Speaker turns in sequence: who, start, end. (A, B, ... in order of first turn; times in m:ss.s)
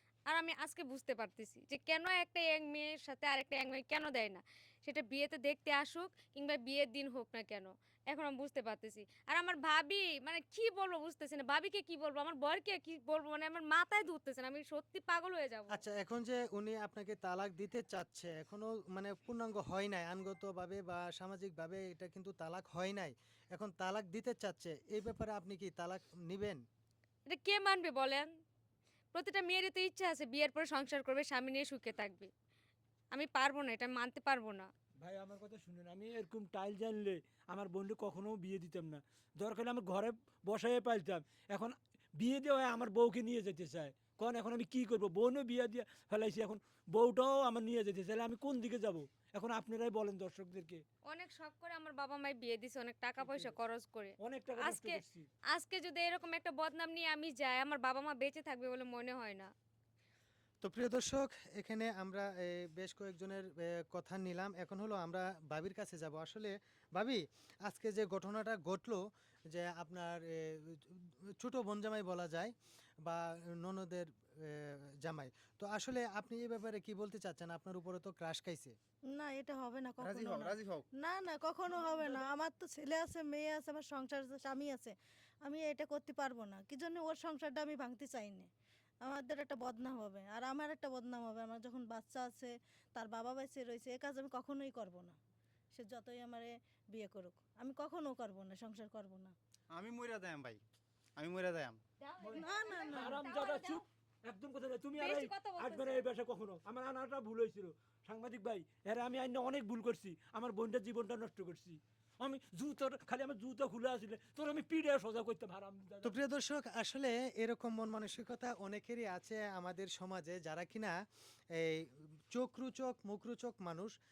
0:00.3-0:15.8 A
0:15.7-0:26.6 B
0:27.3-0:28.3 A
0:29.1-0:32.3 A
0:33.1-0:34.7 A
0:35.0-0:50.8 C
0:51.1-0:55.0 A
0:53.2-0:53.5 C
0:54.2-0:55.3 C
0:55.5-0:59.5 A
1:00.6-1:12.5 B
1:13.0-1:18.8 B
1:19.1-1:28.5 D
1:20.0-1:20.8 E
1:21.7-1:22.3 C
1:29.0-1:35.2 D
1:35.7-1:39.3 D
1:39.7-1:40.6 E
1:41.2-1:41.8 E
1:42.0-1:43.8 A
1:42.2-1:56.2 C
1:42.3-1:43.2 D
1:45.0-1:46.0 A
1:56.0-2:01.0 B
2:01.6-2:03.9 B